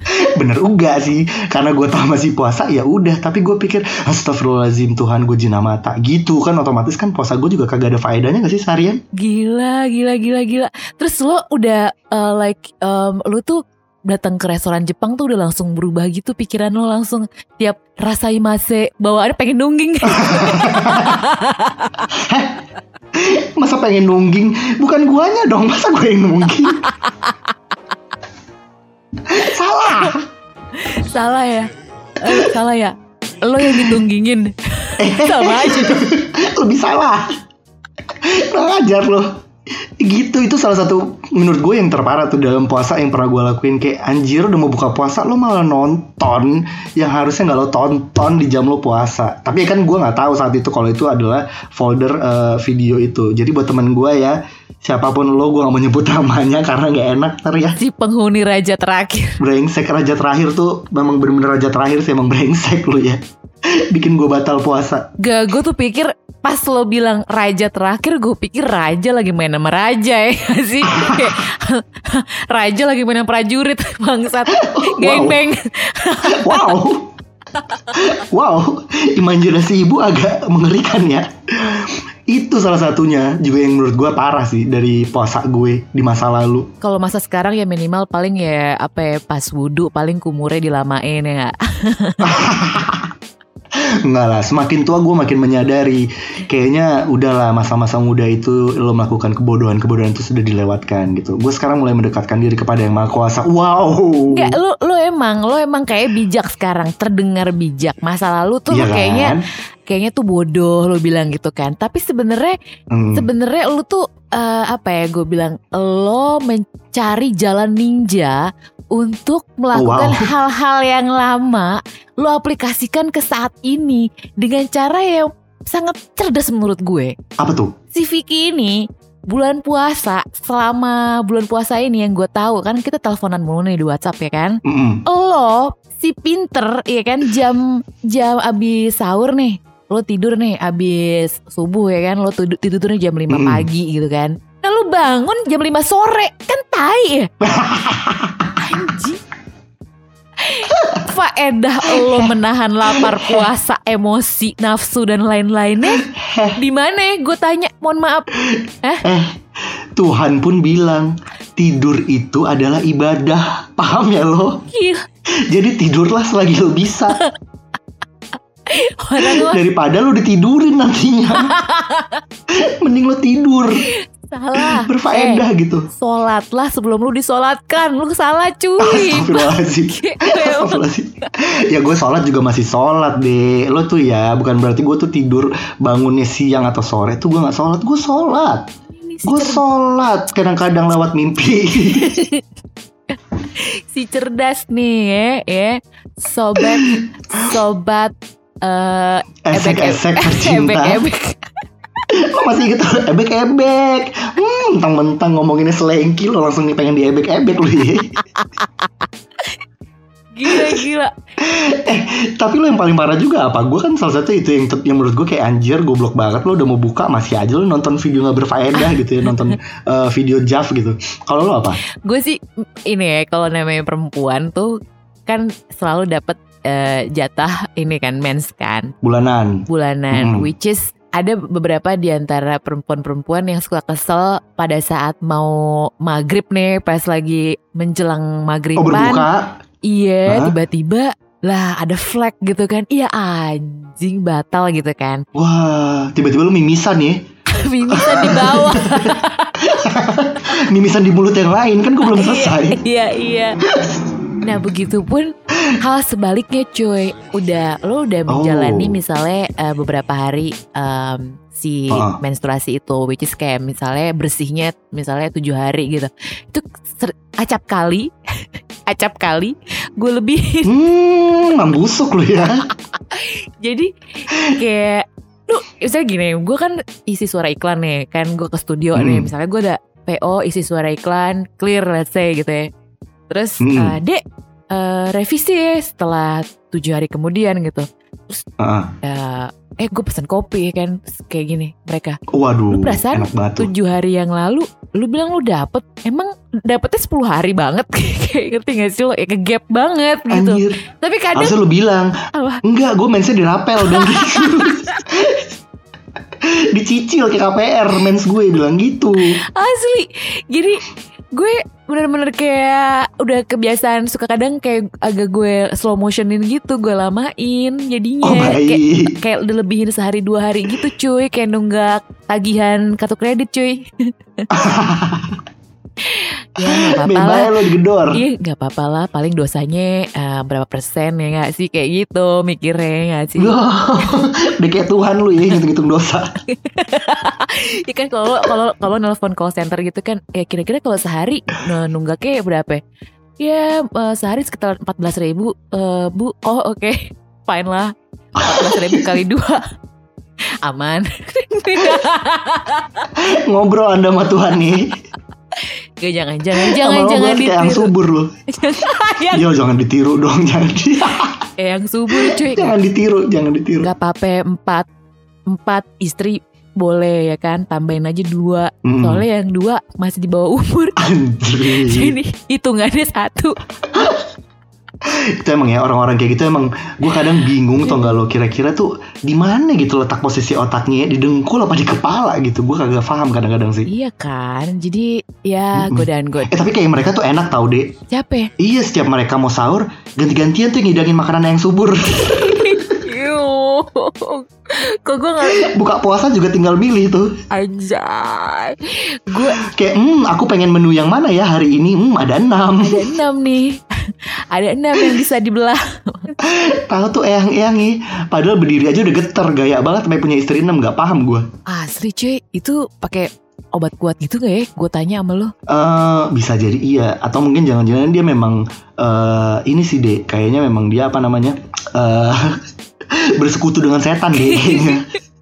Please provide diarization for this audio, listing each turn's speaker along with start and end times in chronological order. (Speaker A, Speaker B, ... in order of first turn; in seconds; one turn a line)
Speaker A: 0.1-9.0
Speaker B: 9.2-22.1
Speaker A: 20.1-21.2
Speaker A: 22.1-22.6
Speaker A: 23.1-26.9
Speaker B: 27.0-27.4
Speaker A: 29.2-30.3
Speaker B: 30.8-36.1
Speaker A: 33.7-34.0
Speaker A: 35.0-37.3
Speaker A: 38.2-39.3
Speaker A: 40.0-57.8
Speaker B: 57.8-59.4
Speaker A: 59.4-65.1
Speaker B: 65.2-76.8
Speaker A: 70.9-71.3
Speaker A: 74.5-75.4
Speaker A: 76.3-77.1
Speaker A: 77.9-86.7
Speaker B: 86.8-92.4
Speaker A: 92.2-93.1
Speaker A: 94.0-104.6
Speaker B: 104.3-109.4
Speaker A: 108.7-109.4
Speaker B: 109.9-112.6
Speaker A: 112.9-113.3
Speaker B: 113.1-127.2
Speaker A: 119.7-120.3
Speaker A: 127.4-127.7
Speaker B: 127.9-147.3
Speaker A: 134.7-135.0
Speaker A: 143.3-143.7
Speaker A: 147.4-148.8
Speaker B: 148.6-149.2
Speaker B: 150.4-156.1
Speaker A: 151.8-152.3
Speaker A: 152.9-153.5
Speaker A: 156.0-156.6
Speaker B: 156.6-158.3
Speaker A: 158.5-159.4
Speaker A: 160.0-164.6
Speaker B: 164.7-165.1
Speaker A: 165.5-167.2
Speaker B: 168.7-169.6
Speaker A: 169.2-171.5
Speaker B: 171.3-172.2
Speaker A: 172.5-173.8
Speaker B: 173.8-180.9
Speaker A: 174.6-175.9
Speaker A: 178.8-188.7
Speaker B: 189.0-189.6
Speaker A: 189.2-192.2
Speaker B: 191.8-192.4
Speaker B: 193.1-202.0
Speaker A: 196.6-197.1
Speaker A: 199.5-201.0
Speaker A: 202.1-208.2
Speaker B: 208.4-208.9
Speaker B: 210.3-211.1
Speaker A: 210.5-210.8
Speaker A: 211.4-221.8
Speaker B: 222.1-228.9
Speaker A: 229.0-230.5
Speaker B: 229.7-239.3
Speaker A: 238.8-239.6
Speaker B: 239.8-245.2
Speaker A: 240.3-240.6
Speaker A: 245.3-247.2
Speaker B: 247.5-249.8
Speaker A: 247.9-252.8
Speaker B: 252.0-253.6
Speaker A: 253.7-254.1
Speaker B: 254.4-268.1
Speaker A: 258.3-259.0
Speaker A: 261.9-262.2
Speaker B: 268.9-270.7
Speaker A: 270.6-272.6
Speaker B: 272.9-282.7
Speaker A: 278.9-279.3
Speaker B: 283.3-288.4
Speaker A: 283.6-284.0
Speaker A: 288.6-288.9
Speaker B: 289.0-292.2
Speaker A: 292.3-293.7
Speaker B: 292.7-301.6
Speaker A: 300.3-300.8
Speaker A: 301.4-302.1
Speaker B: 302.3-302.6
Speaker A: 302.6-305.5
Speaker B: 303.9-305.0
Speaker A: 306.4-309.4
Speaker B: 309.5-324.5
Speaker A: 318.2-319.1
Speaker A: 324.5-325.4
Speaker B: 326.1-327.5
Speaker A: 326.6-328.2
Speaker B: 328.1-333.6
Speaker A: 333.4-336.3
Speaker B: 336.5-342.8
Speaker B: 343.4-349.7
Speaker A: 348.4-349.1
Speaker B: 350.6-353.1
Speaker A: 353.2-355.0
Speaker B: 356.0-357.9
Speaker A: 356.5-358.3
Speaker B: 358.5-359.4
Speaker A: 359.3-361.4
Speaker B: 361.6-362.8
Speaker A: 362.1-363.9
Speaker B: 363.8-364.9
Speaker B: 365.5-371.0
Speaker A: 368.9-369.2
Speaker A: 371.0-372.2
Speaker B: 371.6-373.6
Speaker A: 373.9-374.2
Speaker A: 375.0-383.9
Speaker B: 377.8-378.2
Speaker B: 383.9-386.6
Speaker A: 385.7-387.9
Speaker B: 388.1-388.5
Speaker A: 388.6-392.4
Speaker B: 392.1-395.7
Speaker A: 395.4-397.4
Speaker B: 397.5-399.6
Speaker A: 399.4-403.1
Speaker B: 402.8-406.4
Speaker A: 406.4-411.5
Speaker B: 411.7-415.5
Speaker A: 415.7-422.6
Speaker A: 423.1-425.1
Speaker B: 424.4-425.0